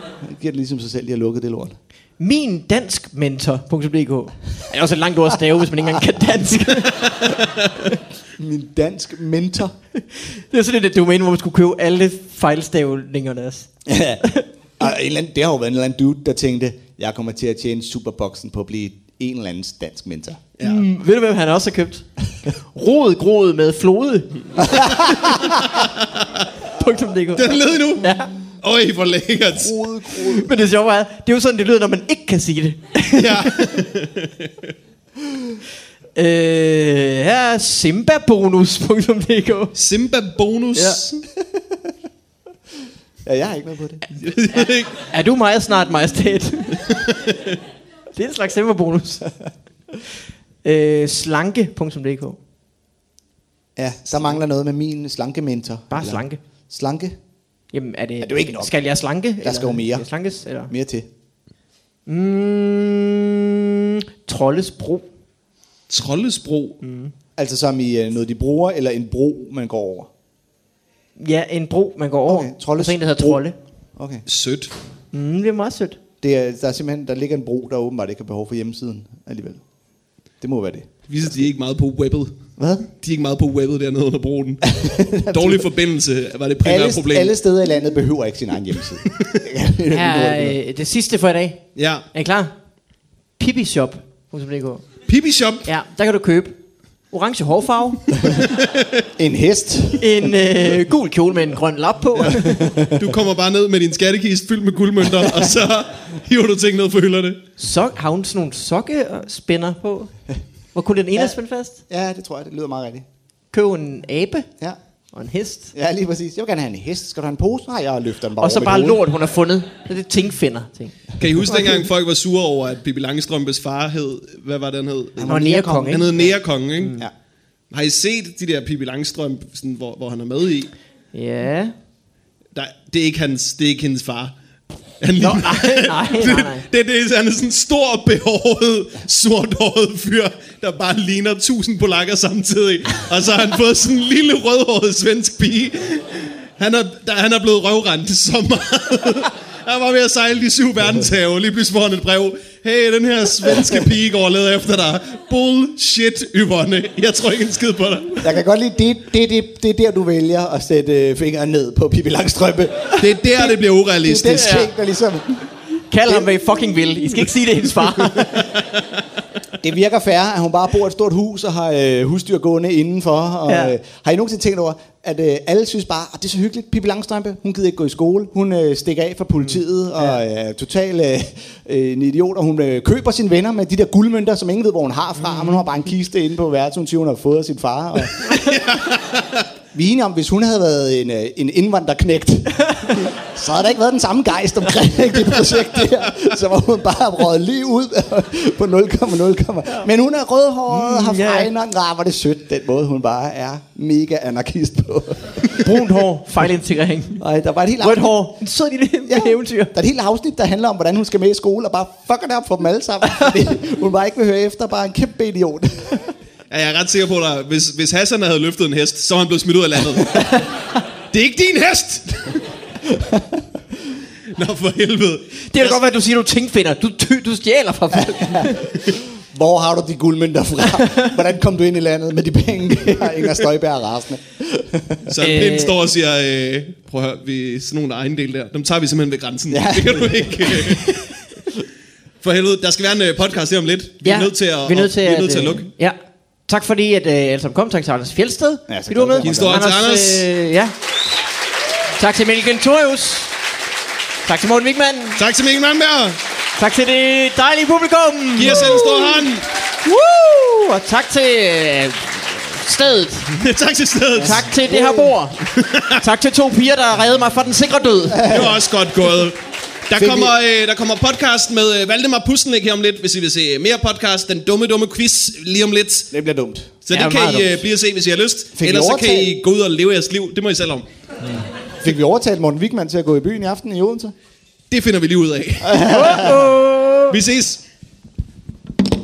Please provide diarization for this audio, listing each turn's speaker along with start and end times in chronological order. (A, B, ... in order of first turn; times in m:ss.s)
0:00.2-0:01.7 A
0:02.2-0:08.0 B
0:08.4-0:09.7 A
0:10.0-0:13.7 B
0:13.9-0:14.2 A
0:14.8-0:20.4 A
0:20.6-0:25.4 B
0:25.8-0:26.3 C
0:26.7-0:28.3 B
0:27.3-0:29.8 C
0:29.5-0:30.5 A
0:30.2-0:33.6 B
0:33.1-0:34.7 C
0:36.1-0:39.7 B
0:39.7-0:41.2 C
0:40.7-0:41.0 B
0:43.2-0:44.0 A
0:44.2-0:44.9 C
0:44.5-0:47.1 B
0:48.1-0:49.3 B
0:50.6-0:52.4 B
0:53.8-0:57.2 A
0:55.9-0:56.4 B
0:57.7-1:00.7 B
0:58.2-0:58.7 A
0:59.4-1:00.1 A
1:00.7-1:01.1 A
1:02.1-1:05.0 B
1:05.9-1:06.8 C
1:06.8-1:07.1 B
1:07.4-1:10.1 A
1:11.2-1:13.6 B
1:12.2-1:13.4 A
1:14.0-1:14.2 A
1:14.2-1:14.7 C
1:15.1-1:16.0 B
1:16.2-1:19.6 A
1:20.4-1:20.9 A
1:21.1-1:22.3 C
1:22.6-1:22.9 A
1:22.9-1:27.3 C
1:24.7-1:25.7 A
1:26.6-1:30.6 A
1:29.9-1:32.5 B
1:31.8-1:32.0 C
1:33.4-1:34.9 B
1:35.1-1:35.7 C
1:35.6-1:36.6 B
1:37.1-1:38.0 B
1:38.4-1:38.9 C
1:39.2-1:40.3 A
1:40.0-1:42.7 B
1:42.2-1:43.0 A
1:43.0-1:47.4 C
1:47.6-1:50.1 B
1:50.7-1:51.8 B
1:51.9-1:53.0 A
1:53.5-1:54.5 B
1:55.1-1:55.7 B
1:55.7-1:59.0 A
1:58.4-2:01.8 B
2:01.2-2:07.0 C
2:05.2-2:06.3 A
2:05.2-2:06.2 B
2:06.8-2:07.1 B
2:07.7-2:10.7 C
2:11.1-2:11.7 B
2:12.5-2:14.3 C
2:15.0-2:38.3 C
2:15.2-2:16.6 B
2:38.2-2:45.4 A
2:43.0-2:44.6 C
2:44.3-2:44.7 B
2:45.9-2:48.6 B
2:48.3-2:48.7 C
2:49.6-3:08.3 A
2:53.5-2:53.7 B
2:59.4-3:00.2 B
3:05.2-3:05.6 B
3:08.2-3:09.5 C
3:09.7-3:25.8 A
3:20.7-3:21.5 B
3:25.6-3:27.2 B
3:27.2-3:28.4 A
3:27.8-3:29.7 B
3:29.1-3:36.1 A
3:36.5-3:40.4 C
3:41.1-3:42.4 C
3:42.8-3:43.4 A
3:44.3-3:45.8 C
3:45.4-3:48.6 B
3:48.2-3:55.1 A
3:55.0-4:01.0 C
3:55.2-3:55.7 B
3:59.5-4:01.0 A
4:02.2-4:05.7 C
4:04.0-4:10.7 B
4:08.7-4:09.6 A
4:09.2-4:10.3 C
4:12.0-4:13.4 B
4:14.2-4:15.2 B
4:15.2-4:16.2 C
4:16.6-4:19.3 B
4:18.3-4:19.5 C
4:19.8-4:23.3 B
4:23.4-4:24.4 C
4:24.1-4:25.4 B
4:24.6-4:25.1 A
4:25.6-4:26.0 C
4:25.9-4:28.4 B
4:28.1-4:28.6 A
4:28.3-4:36.1 C
4:30.0-4:30.3 A
4:36.1-4:36.7 A
4:36.8-4:40.9 C
4:36.9-4:37.6 B
4:38.6-4:39.3 A
4:41.3-4:44.1 A
4:44.7-4:46.5 C
4:45.6-4:46.5 A
4:45.8-4:47.2 B
4:47.1-4:47.6 C